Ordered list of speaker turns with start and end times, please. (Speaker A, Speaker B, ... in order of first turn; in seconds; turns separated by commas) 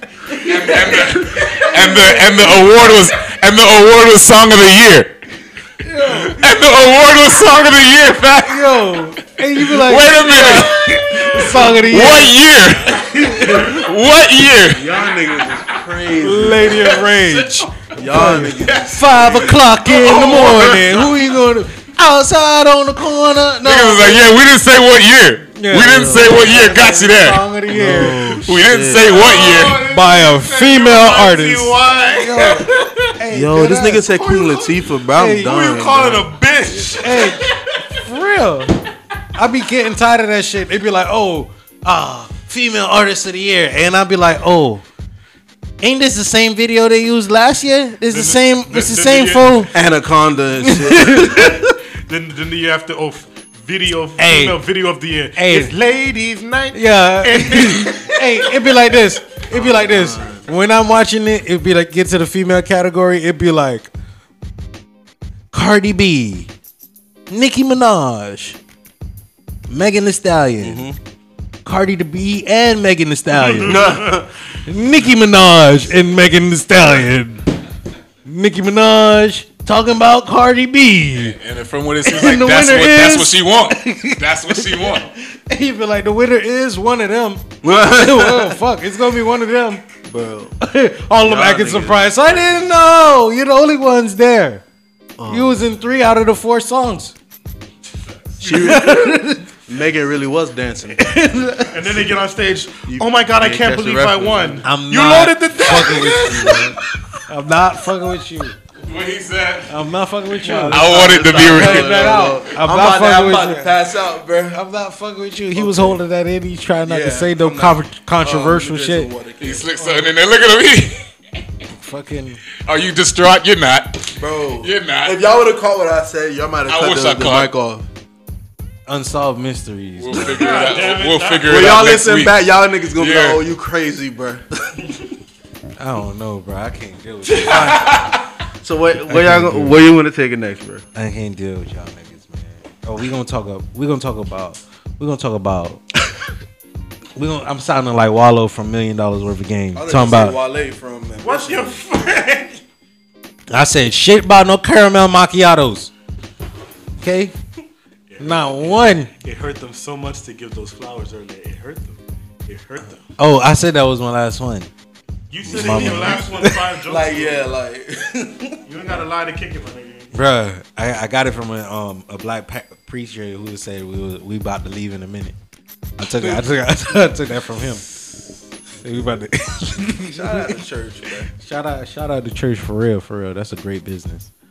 Speaker A: 0.3-5.2, Speaker B: 0.4-2.6, Speaker B: 5.8-6.4, Speaker A: 6.0-9.0, Speaker B: 8.5-12.4, Speaker A: 9.6-15.1, Speaker B: 13.2-13.7, Speaker C: 14.7-17.0, Speaker B: 16.2-24.3, Speaker A: 16.5-21.2, Speaker C: 17.9-19.6, Speaker A: 23.6-29.9, Speaker B: 25.6-28.4, Speaker C: 25.9-26.3, Speaker C: 27.7-29.3, Speaker D: 29.0-32.8, Speaker B: 29.8-34.1, Speaker C: 33.3-36.3, Speaker D: 34.0-37.5, Speaker B: 35.1-35.6, Speaker B: 37.0-38.8, Speaker B: 39.3-44.8, Speaker B: 45.8-49.7, Speaker D: 48.1-49.7, Speaker C: 49.7-51.7, Speaker B: 50.6-51.4, Speaker D: 51.1-59.0, Speaker B: 54.2-54.6, Speaker B: 55.4-55.7, Speaker B: 56.7-63.9, Speaker C: 59.5-60.5, Speaker B: 65.5-66.5, Speaker B: 67.3-68.6, Speaker B: 69.7-70.8, Speaker C: 70.6-71.0, Speaker B: 71.6-77.5, Speaker D: 73.4-74.2, Speaker C: 73.6-74.3, Speaker B: 78.2-81.4, Speaker A: 81.3-85.1, Speaker B: 82.0-89.8, Speaker C: 87.6-88.6, Speaker C: 90.0-90.5, Speaker B: 90.6-94.6, Speaker C: 91.2-92.5, Speaker C: 95.2-95.6, Speaker B: 95.3-97.1, Speaker D: 98.3-99.0, Speaker C: 98.4-101.0, Speaker B: 98.6-99.5, Speaker B: 101.0-101.9, Speaker D: 101.7-106.7, Speaker C: 102.9-104.6, Speaker B: 104.6-106.8, Speaker B: 107.3-108.5, Speaker A: 108.8-109.7, Speaker B: 109.7-113.7, Speaker C: 110.5-114.6, Speaker A: 110.6-112.0, Speaker B: 114.5-119.1, Speaker C: 115.5-116.0, Speaker C: 116.8-120.0, Speaker A: 119.4-121.0, Speaker B: 121.7-122.4, Speaker A: 122.6-125.2, Speaker C: 124.2-127.8, Speaker A: 126.7-127.5, Speaker B: 128.9-130.6, Speaker A: 130.0-133.4, Speaker D: 130.1-131.7, Speaker C: 131.4-135.0, Speaker B: 135.8-137.9, Speaker A: 137.3-138.2, Speaker C: 137.5-137.7, Speaker C: 138.6-140.8, Speaker B: 139.1-139.8, Speaker B: 140.9-145.8, Speaker B: 147.2-150.4, Speaker C: 149.7-151.8, Speaker D: 151.2-152.6, Speaker B: 153.5-155.9, Speaker B: 157.0-157.3, Speaker D: 158.1-163.1, Speaker B: 158.2-159.1, Speaker B: 163.1-164.7, Speaker D: 165.3-167.4, Speaker B: 165.4-166.5, Speaker C: 165.5-168.6, Speaker D: 168.7-170.1, Speaker B: 170.1-175.3, Speaker B: 176.0-177.8, Speaker B: 178.8-180.6, Speaker C: 180.0-181.3, Speaker B: 181.4-184.3